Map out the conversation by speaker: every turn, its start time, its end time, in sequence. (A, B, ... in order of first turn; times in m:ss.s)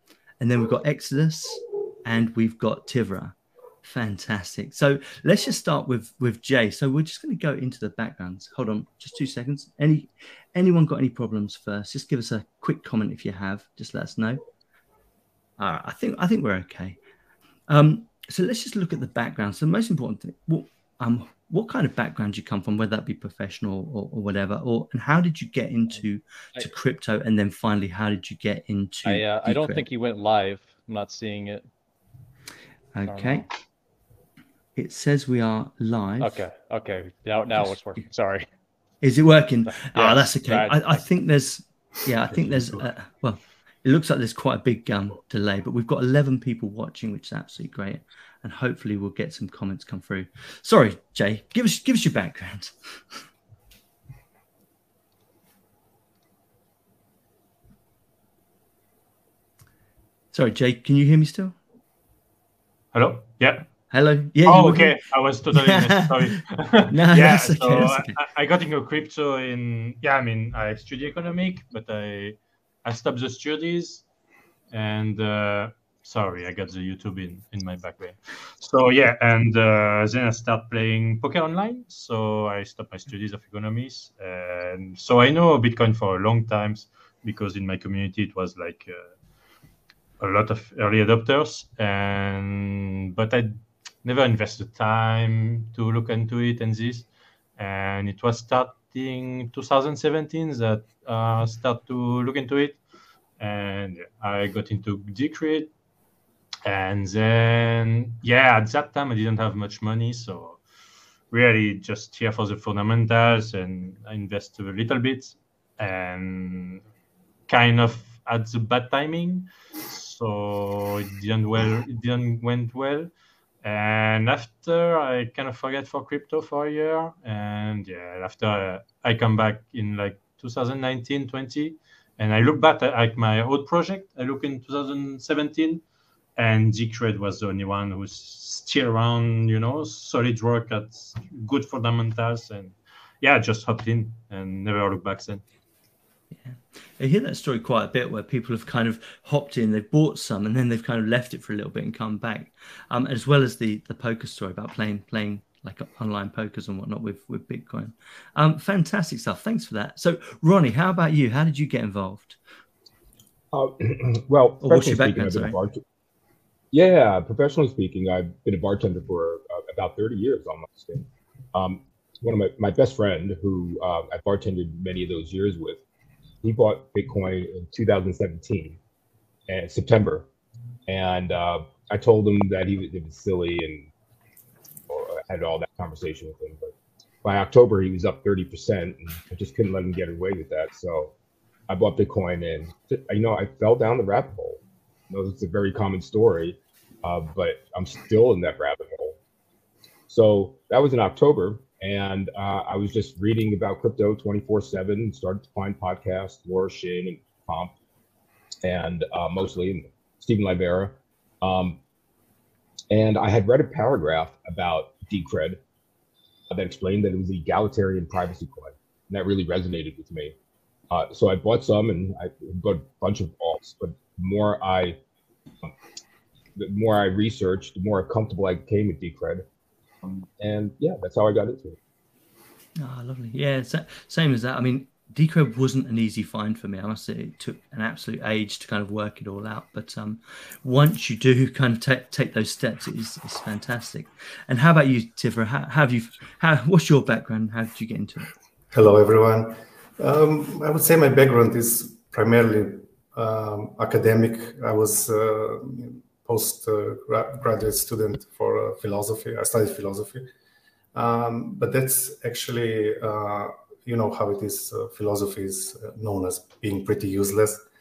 0:00.4-0:14.4 A
0:15.6-0:17.0 A
0:17.7-0:29.9 A
0:29.0-0:31.6 B
0:32.9-0:33.5 A
0:33.1-0:33.4 B
0:34.8-0:36.4 A
0:36.2-0:38.5 B
0:37.5-0:38.0 A
0:39.0-0:53.2 A
0:39.7-0:41.0 B
0:42.6-0:42.8 C
1:00.3-1:01.6 A
1:02.9-1:03.7 D
1:03.9-1:06.4 A
1:04.4-1:14.0 D
1:06.9-1:08.2 A
1:14.7-1:29.1 D
1:30.2-1:42.8 D
1:43.4-1:45.7 D
1:46.6-1:50.6 D
1:51.3-1:56.8 D
1:57.5-2:03.1 D
2:03.6-2:15.8 D
2:16.4-2:25.4 D
2:26.3-2:42.4 A
2:43.5-2:45.8 E
2:44.6-2:45.6 A
2:46.7-2:55.8 E
2:56.4-2:58.8 E
2:59.5-3:00.3 E
3:00.9-3:03.9 E
3:04.9-3:11.1 E
3:11.7-3:19.2 E
3:20.1-3:27.7 E
3:28.6-3:31.8 E
3:32.9-3:35.6 E
3:36.5-3:40.4 E
3:40.9-3:45.0 E
3:46.6-3:49.4 E
3:50.4-3:51.8 E
3:52.8-4:08.3 A
4:08.7-4:20.3 C
4:20.9-4:27.6 C